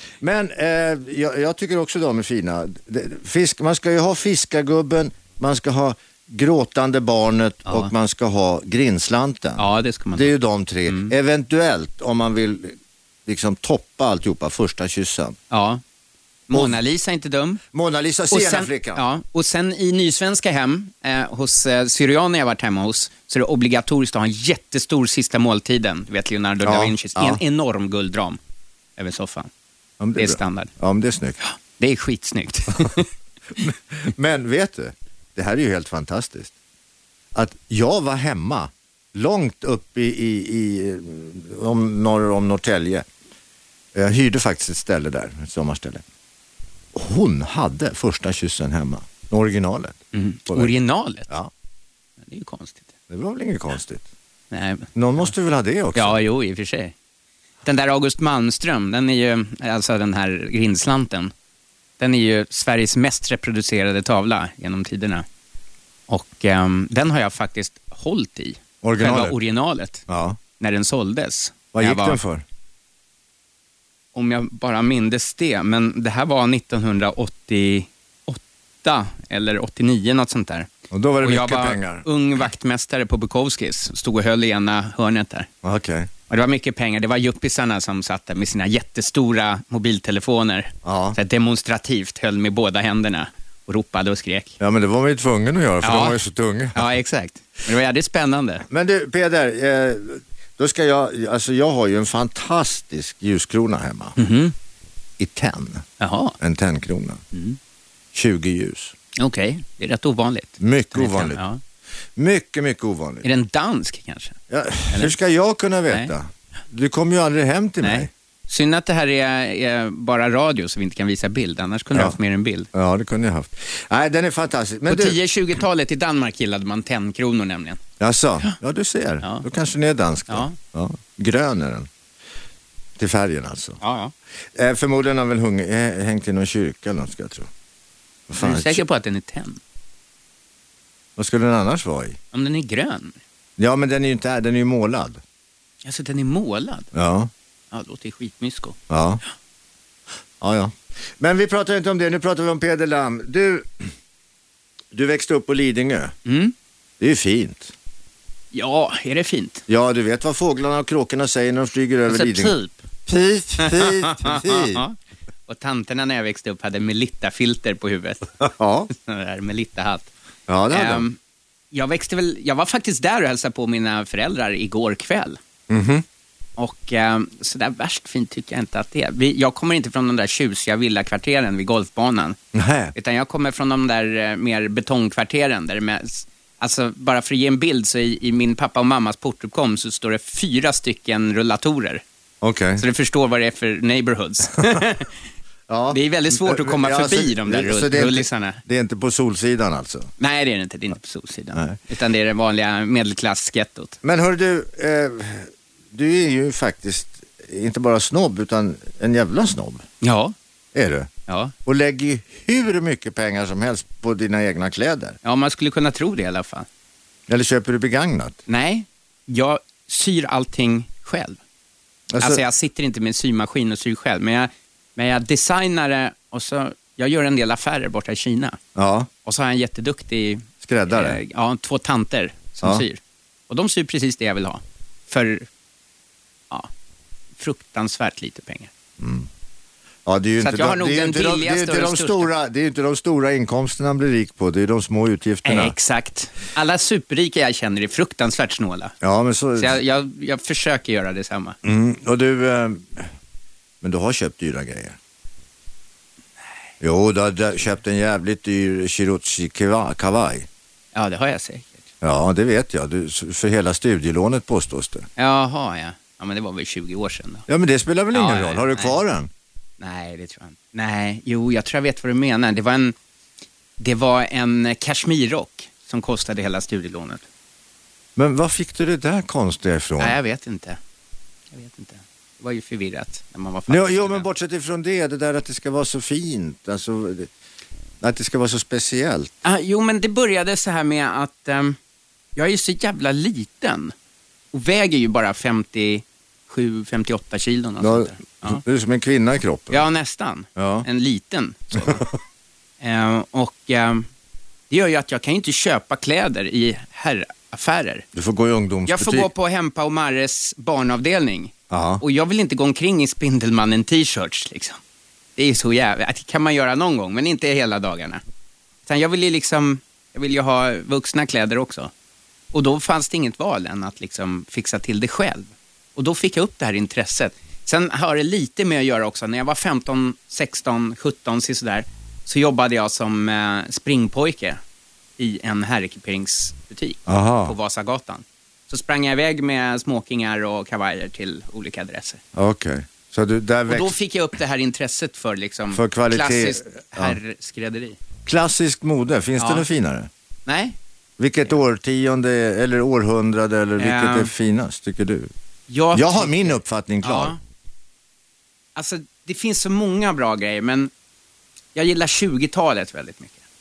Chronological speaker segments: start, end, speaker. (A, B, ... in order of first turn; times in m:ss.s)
0:00.2-0:15.4 A
0:07.7-0:07.9 B
0:09.6-0:10.3 B
0:10.9-0:11.1 B
0:15.5-0:15.8 B
0:16.5-0:17.6 B
0:16.5-0:16.8 A
0:17.7-0:19.0 A
0:18.3-0:28.4 B
0:26.6-0:27.4 A
0:29.0-0:29.5 B
0:30.0-0:31.4 A
0:30.2-0:30.7 B
0:31.4-0:33.6 B
0:33.6-0:36.5 A
0:37.3-0:43.0 A
0:43.9-0:46.0 A
0:46.9-0:50.7 A
0:50.1-0:51.3 B
0:52.2-0:52.9 B
0:53.1-0:54.0 A
0:54.5-0:55.3 B
0:54.9-0:56.2 A
0:55.9-0:56.9 B
0:57.6-1:01.3 B
1:02.0-1:05.2 B
1:06.1-1:10.0 B
1:08.8-1:09.4 A
1:10.1-1:10.4 A
1:10.6-1:12.2 B
1:11.7-1:12.4 A
1:14.1-1:20.7 B
1:20.9-1:22.0 A
1:21.2-1:25.5 B
1:25.6-1:26.1 A
1:26.3-1:34.6 B
1:30.8-1:31.2 A
1:34.6-1:36.8 A
1:35.8-1:36.2 B
1:36.7-1:38.6 B
1:38.7-1:44.2 A
1:44.2-1:44.5 B
1:45.2-1:45.8 A
1:46.0-1:46.4 B
1:46.4-1:47.2 A
1:47.3-1:47.6 B
1:48.1-1:48.9 A
1:49.2-1:51.6 B
1:50.6-1:51.4 A
1:52.2-1:53.2 A
1:53.2-1:54.4 B
1:54.5-1:58.1 A
1:54.9-1:55.1 B
1:57.8-2:02.7 B
2:02.7-2:05.2 A
2:04.9-2:07.8 B
2:08.0-2:11.9 A
2:09.2-2:09.5 B
2:10.3-2:10.6 B
2:13.0-2:13.8 A
2:13.8-2:14.1 B
2:14.5-2:17.5 A
2:18.3-2:18.8 A
2:18.4-2:19.6 B
2:21.2-2:22.2 A
2:22.3-2:23.2 B
2:23.6-2:25.2 A
2:25.8-2:26.9 B
2:26.9-2:27.3 A
2:27.7-2:28.8 B
2:28.9-2:29.2 A
2:30.4-2:33.9 A
2:34.9-2:36.1 A
2:36.2-2:36.5 B
2:37.0-2:37.7 A
2:38.5-2:39.6 B
2:39.7-2:44.8 A
2:42.1-2:42.8 B
2:43.6-2:44.9 B
2:45.5-2:50.1 B
2:48.4-2:48.9 A
2:50.5-2:51.0 A
2:50.7-2:51.2 B
2:51.7-2:55.4 B
2:55.7-2:56.0 A
2:56.6-3:02.4 B
3:02.5-3:02.9 A
3:02.9-3:12.0 B
3:12.4-3:12.8 A
3:12.8-3:15.2 B
3:15.7-3:20.1 A
3:15.9-3:18.6 B
3:20.2-3:24.0 B
3:24.0-3:29.8 A
3:30.0-3:30.3 B
3:30.7-3:31.1 A
3:31.3-3:31.5 B
3:31.6-3:35.2 A
3:35.2-3:36.7 B
3:37.3-3:38.4 A
3:38.5-3:41.4 B
3:42.1-3:42.4 A
3:42.2-3:48.6 B
3:48.7-3:49.1 A
3:49.2-3:55.5 B
3:50.6-3:51.2 A
3:57.4-3:58.7 B
3:59.0-3:59.3 A
4:00.0-4:05.7 A
4:00.4-4:02.3 B
4:05.4-4:08.9 B
4:09.0-4:09.8 A
4:09.6-4:11.6 B
4:11.6-4:13.1 A
4:13.8-4:15.0 A
4:16.8-4:20.5 A
4:20.9-4:21.8 B
4:22.0-4:25.1 A
4:25.2-4:27.4 B
4:27.5-4:29.3 A
4:28.1-4:29.0 B
4:29.8-4:33.0 B
4:33.8-4:37.2 B
4:38.2-4:40.2 A
4:40.0-4:40.8 B
4:41.5-4:44.2 B
4:43.7-4:47.3 A
4:48.0-4:49.3 A
4:49.4-4:51.8 B
4:52.4-4:53.9 B
4:54.5-4:58.6 B
4:57.8-4:59.8 A
4:59.7-5:02.0 B
5:00.6-5:00.8 A
5:02.8-5:04.1 B
5:04.7-5:08.0 B
5:08.1-5:09.3 A
5:08.9-5:14.8 B
5:11.7-5:12.0 A
5:15.4-5:18.2 B
5:18.8-5:21.9 B
5:22.5-5:34.6 B
5:35.2-5:42.2 B
5:37.1-5:37.5 A
5:42.3-5:43.9 A
5:43.7-5:48.0 B
5:45.7-5:47.2 A
5:48.2-5:50.1 A
5:49.4-5:49.6 B
5:50.4-5:50.8 B
5:51.2-5:55.3 A
5:53.8-5:54.3 B
5:55.7-5:57.4 B
5:55.9-5:57.3 A
5:58.8-6:00.9 B
6:01.7-6:03.4 B